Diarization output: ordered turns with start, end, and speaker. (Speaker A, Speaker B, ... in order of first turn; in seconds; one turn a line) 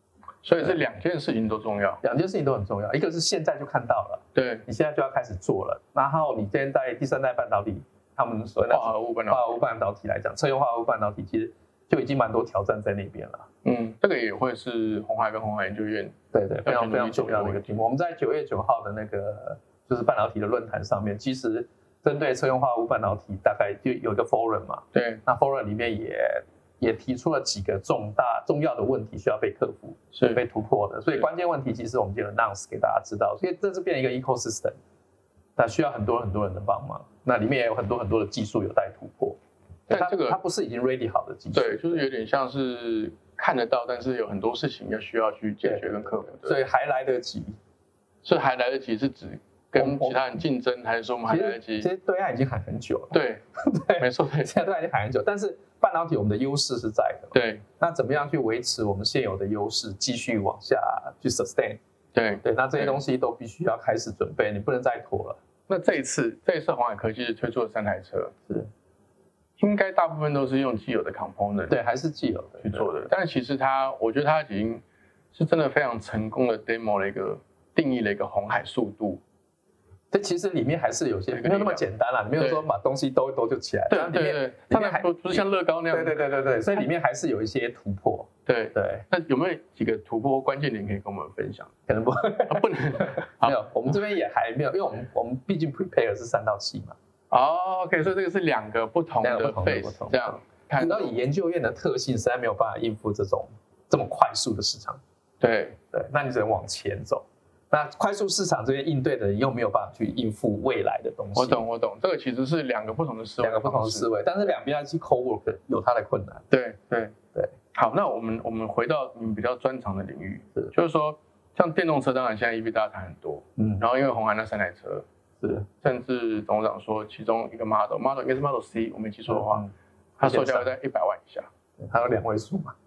Speaker A: 0.4-2.0
Speaker B: 2.0-13.5
Speaker A: 4.3-4.7
Speaker A: 8.7-9.4
Speaker A: 13.6-17.7
Speaker B: 16.3-34.8
Speaker A: 24.9-25.2
Speaker A: 30.1-30.4
Speaker B: 35.6-39.4
Speaker A: 39.9-40.4
Speaker B: 39.9-42.0
Speaker A: 41.5-46.6
Speaker B: 45.6-47.6
Speaker A: 48.2-51.9
Speaker B: 49.7-50.2
Speaker B: 51.3-61.8
Speaker A: 53.1-53.4
Speaker A: 54.0-54.5
Speaker A: 57.3-57.6
Speaker A: 62.1-63.0
Speaker B: 62.4-65.4
Speaker A: 65.7-68.3
Speaker A: 69.6-71.8
Speaker B: 71.7-73.1
Speaker A: 72.6-79.2
Speaker B: 80.1-89.0
Speaker A: 81.3-81.8
Speaker A: 82.4-82.6
Speaker A: 83.9-86.2
Speaker A: 88.5-91.7
Speaker B: 91.9-97.0
Speaker A: 92.5-93.6
Speaker A: 97.3-101.1
Speaker B: 99.2-105.0
Speaker A: 105.4-105.8
Speaker B: 105.9-111.6
Speaker A: 111.3-114.1
Speaker B: 113.4-116.5
Speaker A: 116.5-117.1
Speaker A: 117.7-125.0
Speaker B: 123.6-123.8
Speaker B: 125.4-125.7
Speaker A: 125.8-129.7
Speaker B: 129.3-130.7
Speaker A: 130.2-131.5
Speaker B: 131.8-132.7